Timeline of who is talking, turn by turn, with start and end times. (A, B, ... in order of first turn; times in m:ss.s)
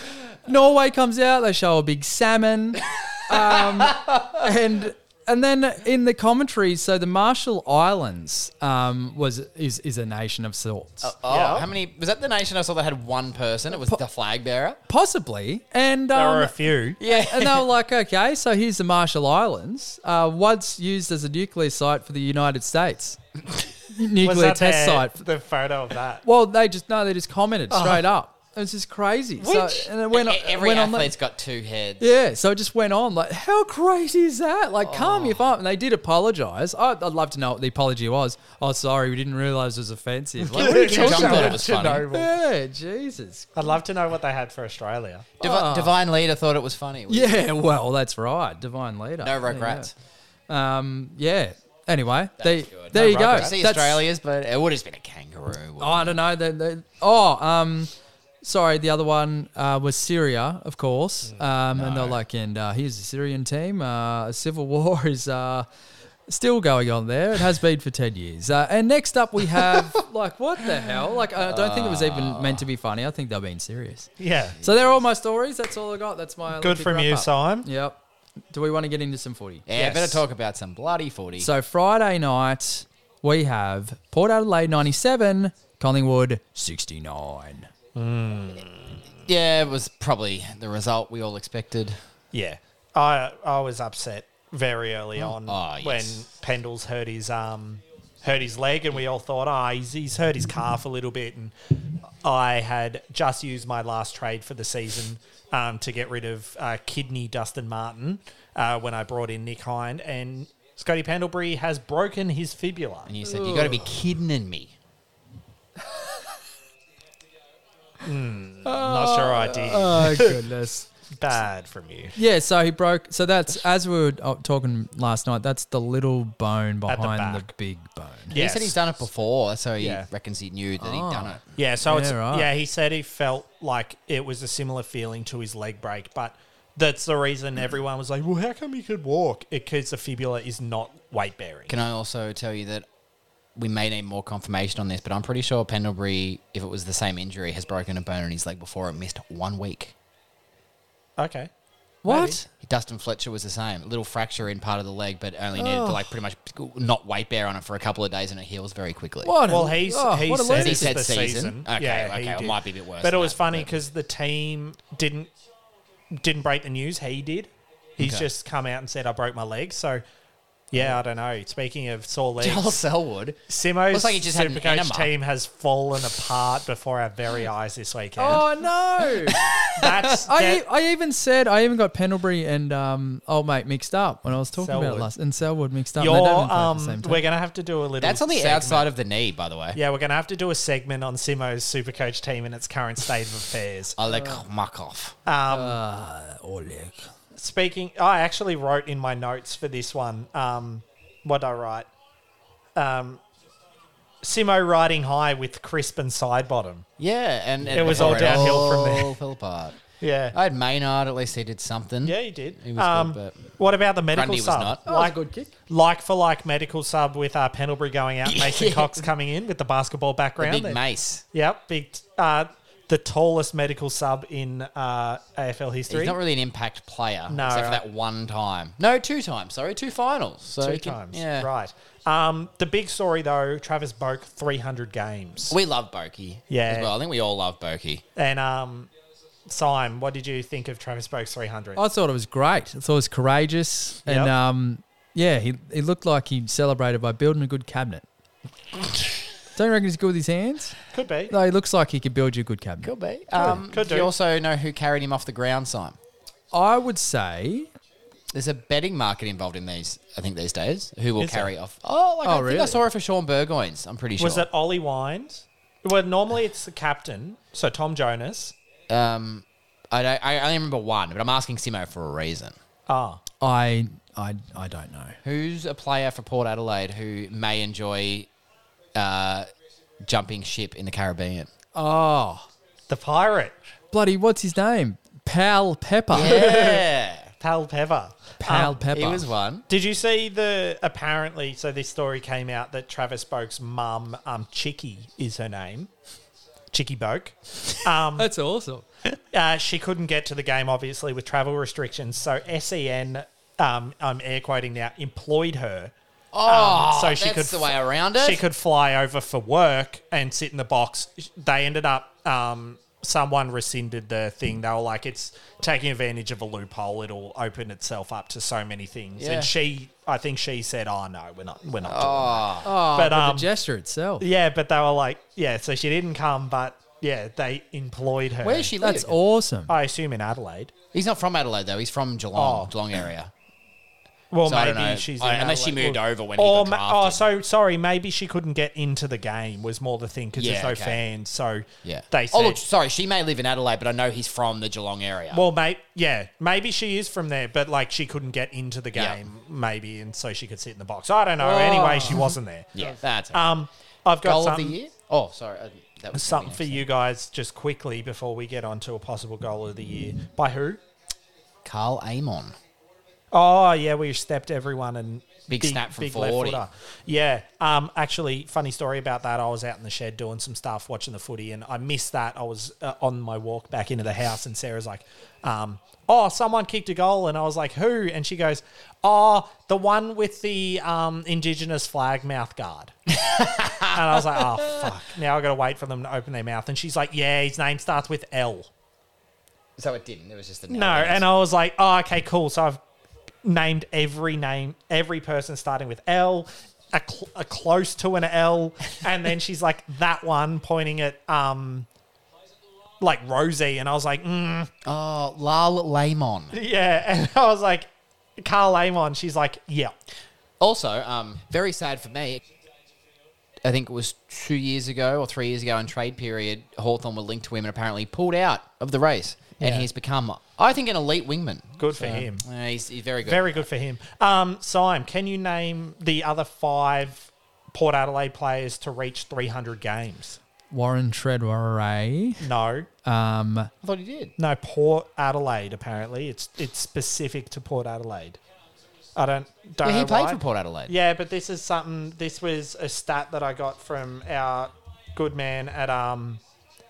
0:00.4-0:11.1 A
0:03.3-0:04.2 B
0:11.0-0:14.8 B
0:11.3-0:11.7 C
0:14.9-0:16.5 A
0:16.1-0:17.0 C
0:17.0-0:17.7 B
0:17.0-0:23.2 A
0:23.9-0:25.2 A
0:24.2-0:26.2 C
0:26.2-0:31.1 A
0:27.7-0:28.0 C
0:29.4-0:32.0 B
0:32.0-0:43.5 A
0:34.8-0:35.4 B
0:40.4-0:42.3 C
0:40.5-0:42.1 B
0:43.6-0:45.3 C
0:45.4-0:47.4 B
0:45.4-0:45.9 A
0:47.1-0:49.9 A
0:49.2-0:49.9 B
0:50.5-0:54.0 A
0:52.4-0:56.2 B
0:52.9-0:53.5 C
0:55.8-0:57.9 A
0:58.4-1:05.7 A
1:01.7-1:02.2 B
1:06.3-1:20.2 A
1:11.3-1:12.6 B
1:14.2-1:14.6 C
1:14.6-1:14.9 B
1:16.6-1:17.7 C
1:19.7-1:21.5 B
1:21.4-1:27.7 A
1:27.9-1:29.0 C
1:29.2-1:32.0 B
1:32.3-1:53.1 C
1:35.2-1:36.2 B
1:53.0-1:54.7 B
1:53.2-1:53.9 A
1:58.0-2:00.4 C
1:58.6-2:00.9 A
2:01.2-2:02.2 C
2:02.2-2:08.3 A
2:06.9-2:07.5 C
2:08.3-2:08.8 C
2:08.3-2:11.4 B
2:09.8-2:10.0 C
2:10.8-2:12.5 A
2:11.5-2:21.7 C
2:21.7-2:22.8 B
2:23.6-2:29.9 B
2:31.2-2:31.5 C
2:32.0-2:32.4 A
2:32.0-2:32.4 C
2:32.5-2:39.3 B
2:35.5-2:36.1 A
2:39.2-2:41.0 A
2:39.5-2:45.3 C
2:40.5-2:43.8 B
2:46.1-2:50.0 C
2:48.0-2:48.2 B
2:50.7-2:52.8 C
2:52.4-2:55.1 B
2:53.5-2:58.5 C
2:58.2-2:59.4 A
2:59.2-3:00.0 B
2:59.7-3:00.6 C
3:00.1-3:07.2 A
3:04.6-3:05.1 C
3:06.0-3:08.9 C
3:08.0-3:09.8 B
3:09.7-3:14.0 C
3:14.0-3:15.2 B
3:15.2-3:15.8 C
3:15.5-3:17.1 A
3:17.3-3:21.9 C
3:22.8-3:23.2 C
3:24.2-3:26.8 C
3:27.0-3:29.8 B
3:27.6-3:28.7 A
3:27.7-3:29.2 C
3:30.0-3:30.4 C
3:30.3-3:33.5 B
3:32.0-3:40.8 C
3:34.1-3:34.8 B
3:34.8-3:35.5 A
3:38.2-3:39.0 B
3:40.4-3:41.2 B
3:41.3-3:46.2 C
3:45.9-3:51.5 B
3:47.3-3:47.8 C
3:50.6-3:55.6 C
3:55.5-3:58.0 B
3:56.5-3:56.9 C
3:58.2-3:58.9 C
3:59.5-4:01.8 C
4:01.8-4:08.0 A
4:04.0-4:04.3 C
4:09.5-4:10.8 A
4:10.9-4:11.3 C
4:11.3-4:12.9 A
4:12.8-4:16.0 B
4:13.4-4:14.1 C
4:16.5-4:17.7 A
4:18.3-4:24.5 B
4:21.2-4:21.5 C
4:22.2-4:22.8 A
4:24.2-4:28.5 C
4:28.9-4:32.6 B
4:32.9-4:33.2 C
4:33.4-4:35.2 A
4:35.2-4:38.3 B
4:38.9-4:39.5 B
4:40.0-4:41.5 B
4:41.7-4:42.5 A
4:42.9-4:43.6 C
4:43.9-4:46.5 A
4:46.1-4:47.3 B
4:46.2-4:46.8 C
4:47.4-4:48.8 C
4:48.4-4:49.3 A
4:48.9-4:49.6 B
4:49.7-4:55.9 C
4:56.7-4:58.3 C
4:58.2-4:58.8 A
4:59.3-5:05.9 C
5:06.3-5:08.4 B
5:06.4-5:23.5 C
5:19.2-5:19.5 B
5:21.8-5:22.7 B
5:22.6-5:24.2 A
5:24.2-5:28.7 C
5:28.4-5:29.2 B
5:28.8-5:29.7 A
5:29.7-5:30.7 C
5:30.9-5:33.3 B
5:32.4-5:32.7 C
5:34.3-5:42.6 C
5:34.4-5:37.2 B
5:40.4-5:41.0 B
5:41.8-5:45.4 B
5:45.3-5:54.8 C
5:48.9-5:49.2 B
5:51.4-5:53.4 B
5:54.2-5:56.8 B
5:56.1-6:00.8 C
6:01.6-6:02.6 B
6:03.3-6:22.9 C
6:05.5-6:06.6 B
6:23.1-6:24.9 B
6:23.8-6:28.7 C
6:29.8-6:31.3 B
6:30.7-6:32.8 C
6:33.4-6:41.9 C
6:43.0-6:44.7 C
6:44.8-6:46.6 B
6:46.5-6:49.9 C
6:50.6-6:52.4 B
6:53.6-7:03.6 B
6:59.6-6:59.9 C
7:01.8-7:02.4 C
7:03.2-7:10.4 C
7:10.7-7:12.5 A
7:12.4-7:12.9 C
7:13.0-7:13.7 A
7:13.8-7:14.3 B
7:14.4-7:18.4 C
7:19.2-7:26.4 C
7:19.8-7:20.9 B